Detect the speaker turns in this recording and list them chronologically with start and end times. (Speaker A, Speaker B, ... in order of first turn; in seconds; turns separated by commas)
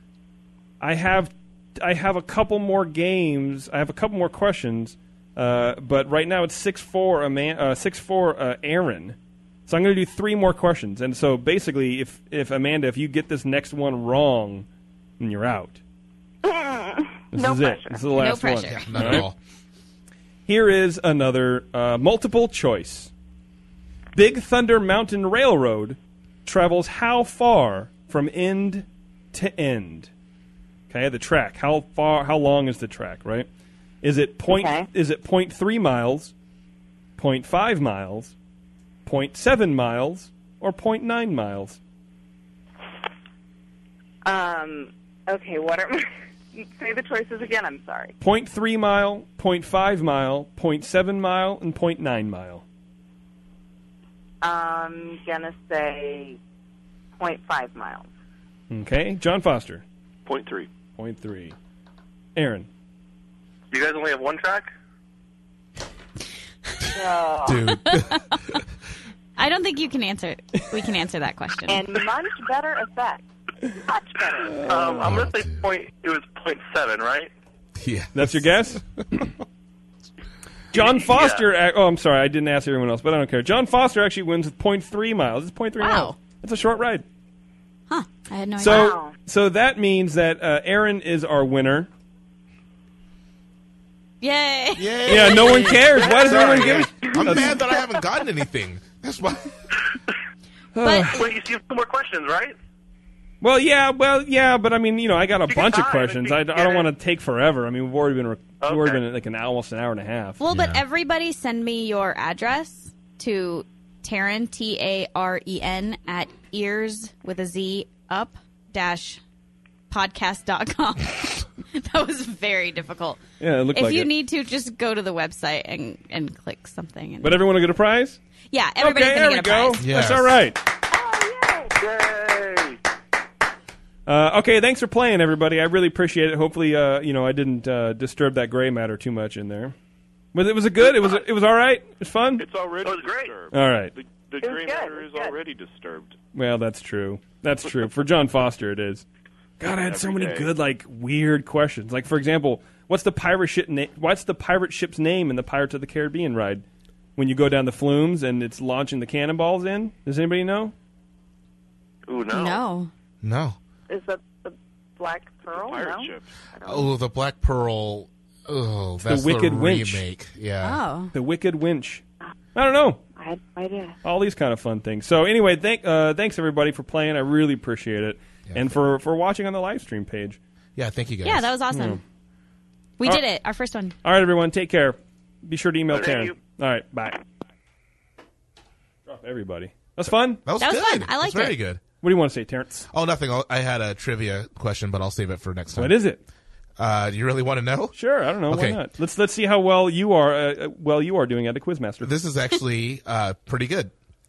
Speaker A: 0.8-9.2, Speaker A: 9.7-14.7, Speaker A: 15.2-15.8, Speaker B: 16.4-18.1, Speaker A: 17.3-19.3, Speaker C: 18.1-19.1, Speaker D: 18.7-19.4, Speaker A: 20.5-23.1, Speaker A: 24.1-30.1, Speaker A: 30.9-33.5, Speaker A: 34.0-36.3, Speaker B: 34.5-34.9, Speaker A: 37.2-38.3, Speaker A: 39.0-41.8, Speaker B: 44.2-48.1, Speaker A: 48.2-52.6, Speaker B: 54.4-56.4, Speaker B: 57.2-58.1, Speaker A: 58.7-59.8, Speaker E: 60.3-60.7, Speaker A: 61.0-61.6, Speaker A: 62.4-62.7, Speaker F: 63.7-64.7, Speaker B: 66.9-67.7, Speaker D: 67.5-68.4, Speaker C: 67.7-68.4, Speaker C: 69.4-72.0, Speaker B: 71.7-73.2, Speaker B: 73.8-74.6, Speaker A: 74.5-75.1, Speaker F: 74.6-77.3, Speaker D: 75.0-75.6, Speaker D: 77.8-79.3, Speaker A: 78.1-78.8, Speaker A: 80.7-87.0, Speaker F: 81.0-81.5, Speaker C: 85.8-86.2, Speaker C: 87.9-89.0, Speaker A: 88.6-91.9, Speaker B: 88.6-89.1, Speaker C: 94.2-96.2, Speaker D: 94.8-99.5, Speaker A: 95.1-97.6, Speaker B: 97.0-97.4, Speaker A: 100.8-101.2, Speaker C: 100.8-101.3, Speaker F: 101.1-102.5, Speaker A: 103.4-110.4, Speaker F: 105.5-106.9, Speaker F: 108.6-109.0, Speaker C: 110.4-119.2, Speaker D: 110.5-110.8, Speaker C: 119.9-127.4, Speaker A: 123.4-124.1, Speaker A: 127.2-128.2, Speaker C: 128.5-129.8, Speaker A: 128.8-130.6, Speaker D: 129.8-130.3, Speaker B: 130.9-131.8, Speaker F: 131.8-132.8, Speaker A: 134.1-139.8, Speaker A: 140.3-142.4, Speaker E: 142.4-146.2, Speaker F: 142.8-143.3, Speaker A: 143.5-143.9, Speaker B: 144.4-145.4, Speaker A: 146.3-149.1, Speaker A: 149.6-156.7, Speaker E: 149.7-150.5, Speaker A: 157.2-160.7, Speaker F: 162.1-162.6, Speaker C: 162.3-162.9, Speaker D: 163.2-163.6, Speaker B: 163.9-166.9, Speaker E: 165.5-166.3, Speaker D: 166.6-170.8, Speaker A: 169.0-170.1, Speaker C: 170.6-171.1, Speaker A: 171.1-172.0, Speaker A: 172.6-173.0, Speaker B: 173.2-174.0, Speaker A: 174.0-180.4, Speaker D: 180.8-181.5, Speaker C: 181.2-182.0, Speaker A: 181.7-182.0, Speaker C: 183.0-184.0, Speaker A: 184.0-187.2, Speaker F: 185.9-186.3, Speaker A: 189.1-190.4, Speaker D: 190.5-191.8, Speaker C: 190.6-191.6, Speaker A: 192.0-192.9, Speaker D: 192.9-196.0, Speaker A: 195.8-196.2, Speaker D: 196.8-197.9, Speaker A: 197.9-202.1, Speaker D: 198.5-198.8, Speaker D: 202.0-203.9